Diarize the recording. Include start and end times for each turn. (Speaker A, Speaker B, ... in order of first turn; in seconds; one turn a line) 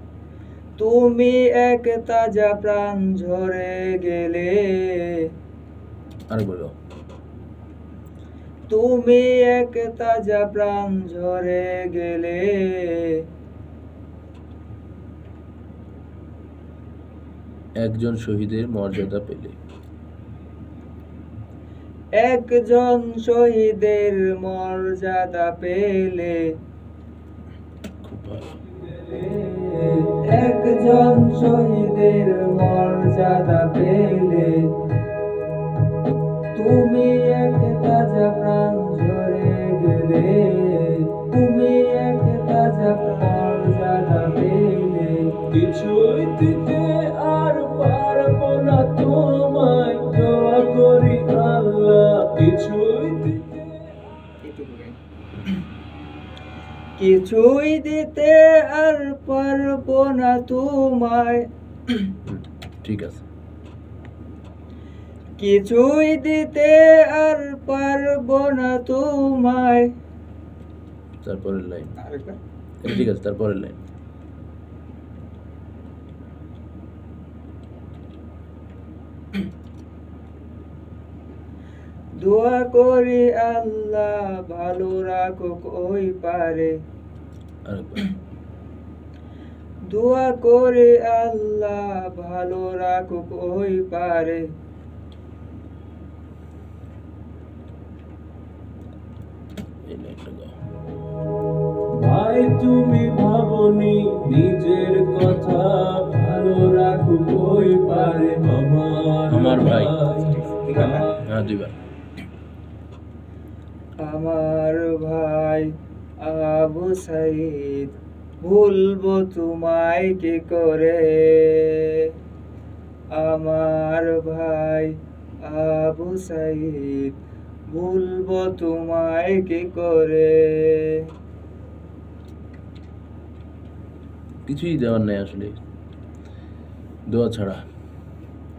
Speaker A: 0.8-5.3
Speaker B: 6.3-6.7
Speaker A: 8.7-13.2
Speaker B: 17.8-19.6
Speaker A: 22.1-26.4
Speaker B: 28.0-28.6
Speaker A: 28.9-34.7
Speaker A: 36.5-45.4
Speaker C: 45.5-54.4
Speaker A: 54.6-54.9
Speaker A: 57.0-62.1
Speaker B: 62.3-63.2
Speaker A: 65.4-69.9
Speaker B: 71.2-72.0
Speaker A: 72.1-72.4
Speaker B: 72.8-73.8
Speaker A: 82.2-86.8
Speaker B: 87.7-88.0
Speaker A: 89.9-94.4
Speaker B: 99.8-100.5
Speaker C: 101.9-111.1
Speaker B: 109.3-110.0
Speaker A: 110.6-110.9
Speaker B: 111.1-111.7
Speaker A: 114.0-122.1
Speaker A: 123.1-127.2
Speaker A: 127.7-131.1
Speaker B: 134.4-135.6
Speaker B: 137.1-137.6